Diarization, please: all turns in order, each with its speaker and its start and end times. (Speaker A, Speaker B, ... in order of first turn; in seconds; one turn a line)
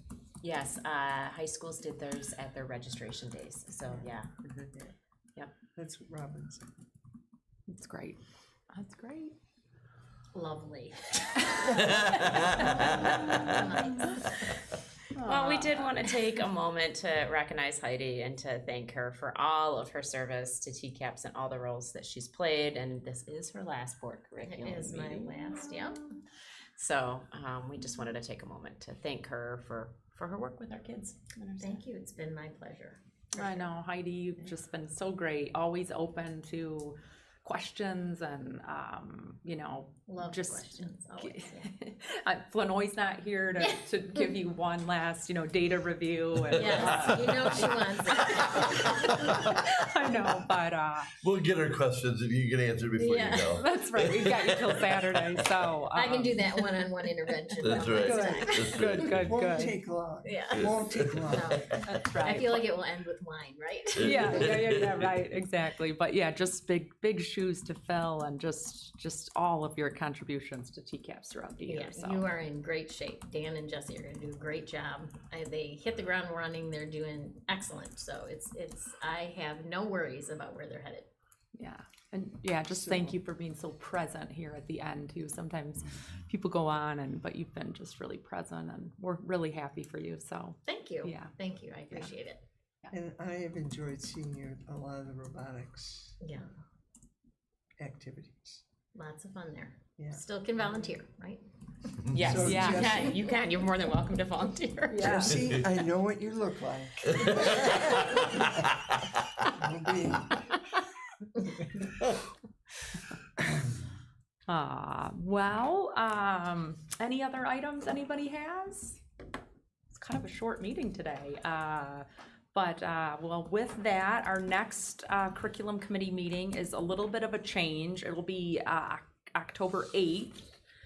Speaker A: 0.4-4.7
Speaker B: 5.8-6.6
Speaker C: 7.7-8.2
Speaker C: 8.7-9.3
Speaker D: 10.3-14.5
Speaker E: 11.9-12.5
Speaker C: 12.5-14.2
Speaker C: 15.1-16.2
Speaker A: 15.2-25.4
Speaker D: 24.4-26.2
Speaker A: 26.7-31.8
Speaker D: 31.6-33.6
Speaker C: 33.3-51.1
Speaker D: 40.1-41.7
Speaker D: 46.6-49.5
Speaker E: 46.7-47.1
Speaker E: 48.8-49.7
Speaker E: 51.2-54.9
Speaker D: 53.0-53.6
Speaker C: 53.5-56.9
Speaker D: 55.9-59.1
Speaker E: 57.6-59.5
Speaker C: 57.6-59.8
Speaker B: 59.2-61.6
Speaker D: 60.2-64.6
Speaker E: 60.6-61.4
Speaker C: 61.8-62.7
Speaker C: 64.0-72.3
Speaker D: 71.7-81.1
Speaker C: 81.5-91.3
Speaker B: 82.7-83.2
Speaker D: 90.7-92.4
Speaker B: 92.9-96.2
Speaker D: 96.2-96.5
Speaker B: 97.8-98.6
Speaker D: 98.9-101.4
Speaker B: 100.0-100.2
Speaker A: 102.1-105.3
Speaker B: 102.1-103.2
Speaker C: 102.3-103.0
Speaker C: 104.9-105.4
Speaker B: 105.0-108.6
Speaker E: 107.2-108.5
Speaker B: 109.5-110.5
Speaker C: 114.5-119.0
Speaker C: 119.9-130.4